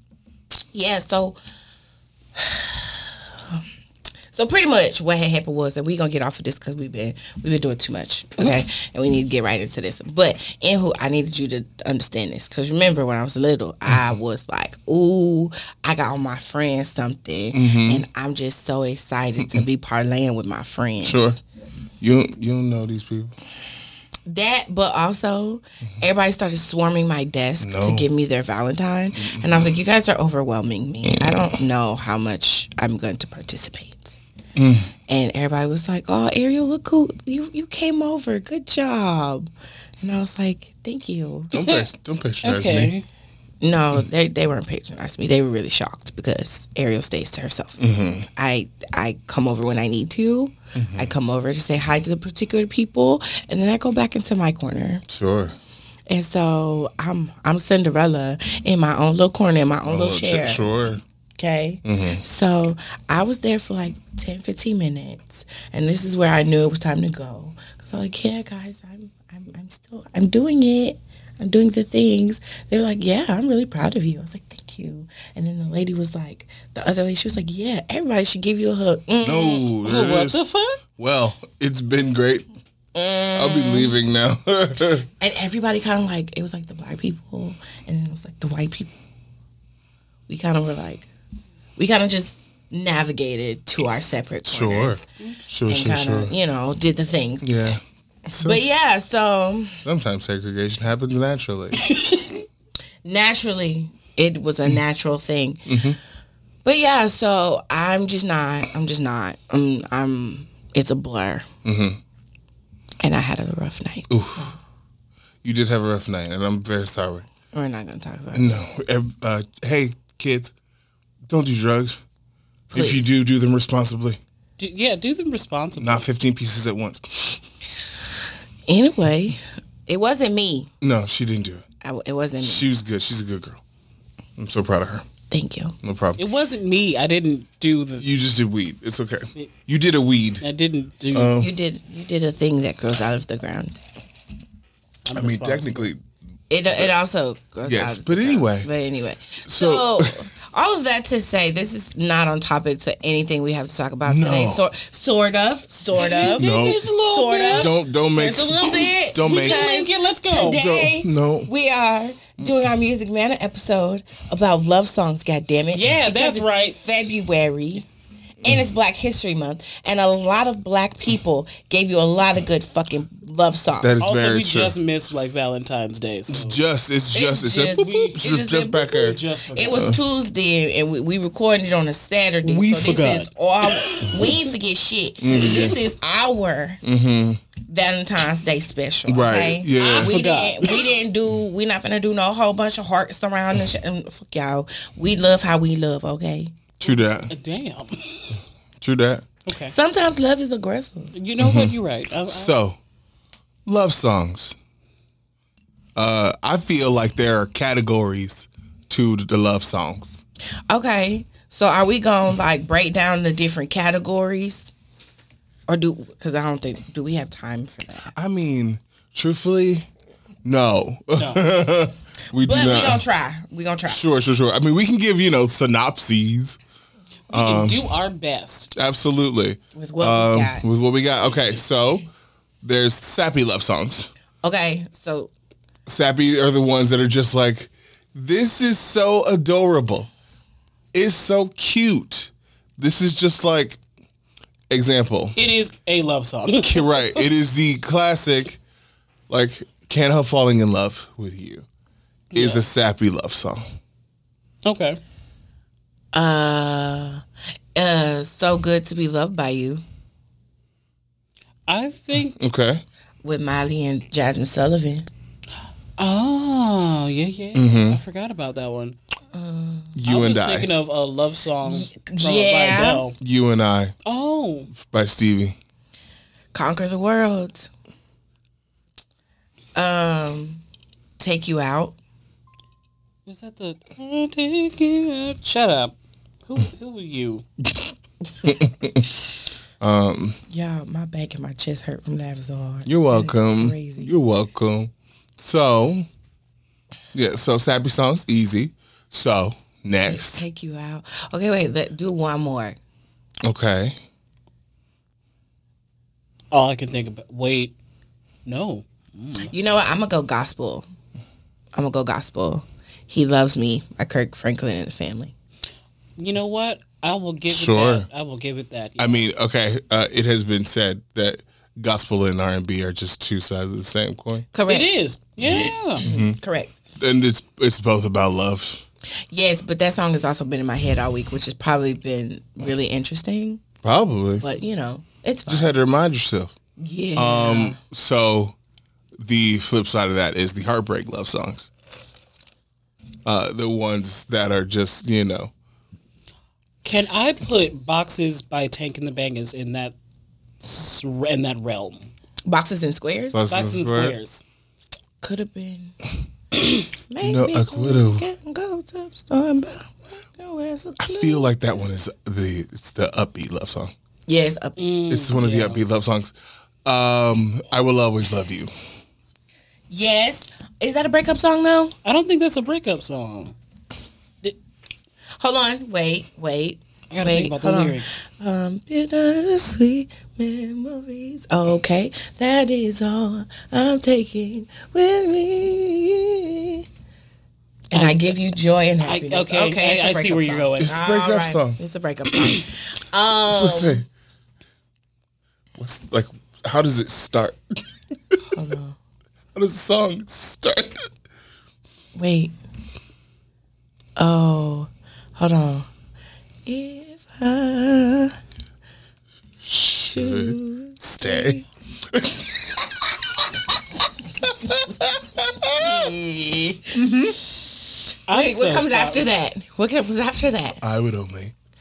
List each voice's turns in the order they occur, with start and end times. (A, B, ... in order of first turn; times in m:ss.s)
0:00.7-0:01.4 A
0:02.4-0:03.6 A
0:04.3-0:21.4 A
0:17.5-0:18.0 B
0:21.0-0:21.4 B
0:22.0-0:23.3 B
0:24.3-0:34.2 A
0:27.6-0:28.1 B
0:29.2-0:29.7 B
0:31.1-0:31.5 B
0:34.6-0:34.9 B
0:35.1-0:39.5 A
0:40.0-0:41.6 A
0:41.5-0:42.9 B
0:41.6-0:41.8 C
0:42.4-0:43.0 C
0:43.6-0:55.0 A
0:47.8-0:48.3 B
0:50.8-0:51.1 B
0:55.1-0:55.6 B
0:56.1-1:00.7 A
0:59.9-1:01.0 B
1:01.4-1:19.7 A
1:01.8-1:02.2 B
1:19.2-1:20.5 B
1:19.8-1:20.8 C
1:21.0-1:22.4 B
1:22.9-1:23.9 A
1:23.4-1:25.1 B
1:25.2-1:28.9 A
1:30.3-1:31.1 A
1:31.8-1:35.0 A
1:34.5-1:36.3 B
1:35.7-1:37.5 A
1:37.4-1:38.7 B
1:38.3-1:39.8 A
1:39.8-1:41.8 B
1:41.8-1:42.4 C
1:43.0-1:45.9 A
1:45.7-1:46.0 B
1:46.6-1:51.5 A
1:51.6-1:52.0 B
1:53.0-1:54.6 A
1:54.1-1:54.5 B
1:55.4-1:57.3 B
1:57.5-1:58.6 A
1:58.3-2:00.5 B
2:01.3-2:02.0 B
2:02.7-2:03.1 A
2:02.7-2:04.2 B
2:04.6-2:06.1 C
2:05.8-2:07.4 B
2:08.7-2:10.7 A
2:10.8-2:11.6 B
2:11.8-2:12.6 A
2:12.4-2:13.6 B
2:14.4-2:15.1 B
2:15.3-2:15.8 A
2:15.8-2:16.2 B
2:16.2-2:18.1 C
2:18.0-2:20.4 B
2:20.4-2:21.4 C
2:21.1-2:21.5 B
2:21.4-2:23.8 A
2:25.1-2:25.9 C
2:25.1-2:26.0 B
2:26.5-2:47.9 A
2:27.6-2:28.7 B
2:29.5-2:30.2 B
2:34.1-2:34.6 B
2:36.0-2:37.8 C
2:36.3-2:36.9 B
2:37.5-2:39.7 B
2:39.2-2:40.6 C
2:40.5-2:41.5 B
2:45.7-2:46.8 C
2:48.4-2:54.0 A
2:53.8-2:54.8 B
2:54.0-2:56.6 C
2:56.3-2:59.2 B
2:57.1-3:06.8 A
2:57.7-2:59.9 C
3:02.4-3:04.3 C
3:05.2-3:05.8 B
3:06.8-3:07.4 B
3:07.7-3:16.6 A
3:09.1-3:10.2 B
3:09.8-3:10.9 C
3:16.8-3:17.3 B
3:16.8-3:18.4 C
3:18.8-3:19.3 B
3:19.5-3:19.7 C
3:19.7-3:21.1 A
3:21.1-3:22.6 C
3:21.4-3:21.8 B
3:22.3-3:22.8 B
3:23.7-3:24.6 B
3:26.0-3:30.2 B
3:30.7-3:34.7 A
3:35.7-3:38.1 A
3:38.1-3:39.9 B
3:40.4-3:43.0 B
3:41.2-3:41.5 C
3:42.4-3:44.0 A
3:43.9-3:46.6 B
3:47.3-3:47.8 B
3:47.3-3:48.7 C
3:48.8-3:52.1 B
3:49.7-3:50.7 A
3:52.6-3:54.1 B
3:54.4-3:55.3 A
3:55.9-4:00.1 B
4:00.9-4:03.8 B
4:04.7-4:05.4 B
4:05.4-4:07.3 C
4:06.6-4:08.6 B
4:09.3-4:11.7 B
4:12.3-4:12.6 C
4:12.3-4:13.6 B
4:14.6-4:15.0 C
4:16.1-4:17.2 A
4:17.8-4:19.8 A
4:21.7-4:22.4 C
4:22.3-4:22.8 B
4:23.2-4:25.1 A
4:26.0-4:29.0 C
4:27.5-4:28.0 B
4:29.3-4:30.0 A
4:30.0-4:30.7 B
4:30.1-4:33.2 C
4:31.7-4:33.1 A
4:33.2-4:33.9 B
4:34.0-4:34.7 C
4:34.8-4:35.6 B
4:36.5-4:37.7 A
4:39.8-4:40.6 A
4:41.2-4:42.0 A
4:43.3-4:46.0 C
4:46.5-4:47.4 C
4:48.4-4:49.1 B
4:49.8-4:50.4 B
4:50.5-4:54.1 A
4:52.9-4:56.1 B
4:57.1-5:00.4 B
5:00.1-5:02.8 A
5:03.4-5:04.0 B
5:06.5-5:07.7 C
5:08.4-5:09.5 C
5:09.5-5:10.9 A
5:11.7-5:15.3 A
5:16.2-5:19.3 C
5:17.5-5:18.1 B
5:19.0-5:24.5 B
5:24.5-5:25.0 A
5:24.7-5:26.0 C
5:25.4-5:26.4 B
5:26.0-5:26.8 A
5:27.0-5:28.8 B
5:29.3-5:33.6 A
5:33.8-5:34.4 B
5:34.4-5:35.7 A
5:35.5-5:36.6 B
5:36.8-5:37.8 A
5:37.2-5:38.6 B
5:39.2-5:41.7 B
5:43.3-5:45.5 B
5:46.8-5:50.0 C
5:50.6-5:52.1 C
5:52.5-5:53.5 A
5:53.3-5:54.2 B
5:53.5-5:54.4 C
5:55.2-5:56.0 A
5:57.1-6:01.5 A
5:57.2-5:58.2 B
6:01.0-6:03.9 B
6:04.3-6:04.8 A
6:04.8-6:05.8 C
6:05.1-6:06.3 B
6:06.8-6:08.7 B
6:09.9-6:11.9 A
6:12.0-6:13.6 C
6:15.4-6:26.8 A
6:17.1-6:18.2 C
6:27.9-6:34.0 A
6:27.9-6:28.4 C
6:29.0-6:31.0 C
6:30.8-6:31.8 B
6:33.5-6:34.0 B
6:35.8-6:38.4 B
6:38.5-6:39.0 A
6:39.6-6:41.1 B
6:42.2-6:42.5 A
6:44.2-6:45.9 A
6:46.7-6:48.4 A
6:49.6-6:53.5 B
6:50.0-6:51.6 A
6:54.4-6:56.1 B
6:55.8-6:57.0 A
6:57.0-6:57.4 B
6:58.3-6:59.3 C
6:58.3-7:00.8 A
7:00.8-7:01.5 B